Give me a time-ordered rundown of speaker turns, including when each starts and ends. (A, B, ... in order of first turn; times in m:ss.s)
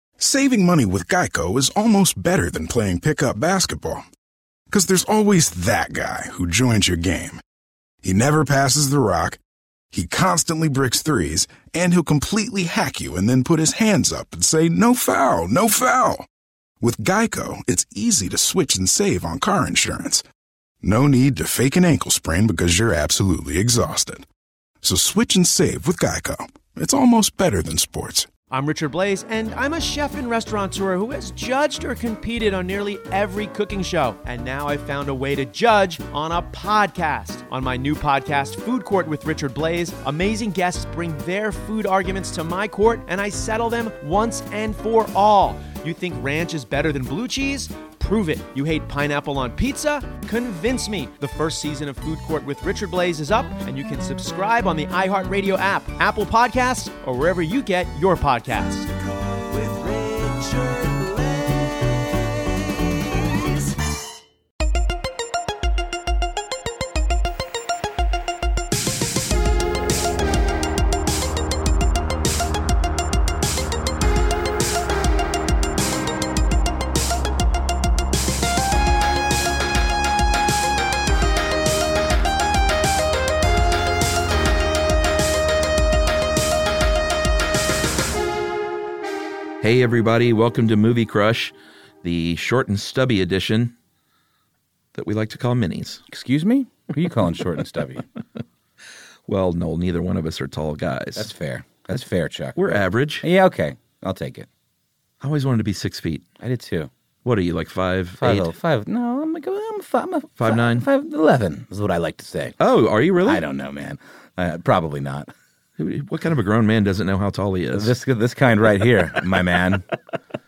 0:00.2-0:04.0 A
0:04.7-0:07.4 A
0:08.0-0:09.4 A
0:09.9-0:16.3 A
0:16.8-0:20.2 A
0:20.8-0:24.3 A
0:24.8-0:28.3 A
0:28.5-0:58.9 B
0:59.5-1:01.7 B
1:29.6-1:33.7 C
1:34.9-1:36.0 C
1:36.1-1:38.1 D
1:39.3-1:41.3 C
1:41.2-1:44.5 D
1:42.6-1:43.2 C
1:45.2-1:46.2 C
1:46.4-1:46.9 D
1:47.2-1:48.5 C
1:48.2-1:52.6 D
1:50.4-1:50.8 C
1:52.6-1:53.4 C
1:53.2-1:55.3 D
1:55.8-1:58.0 C
1:57.7-1:59.8 D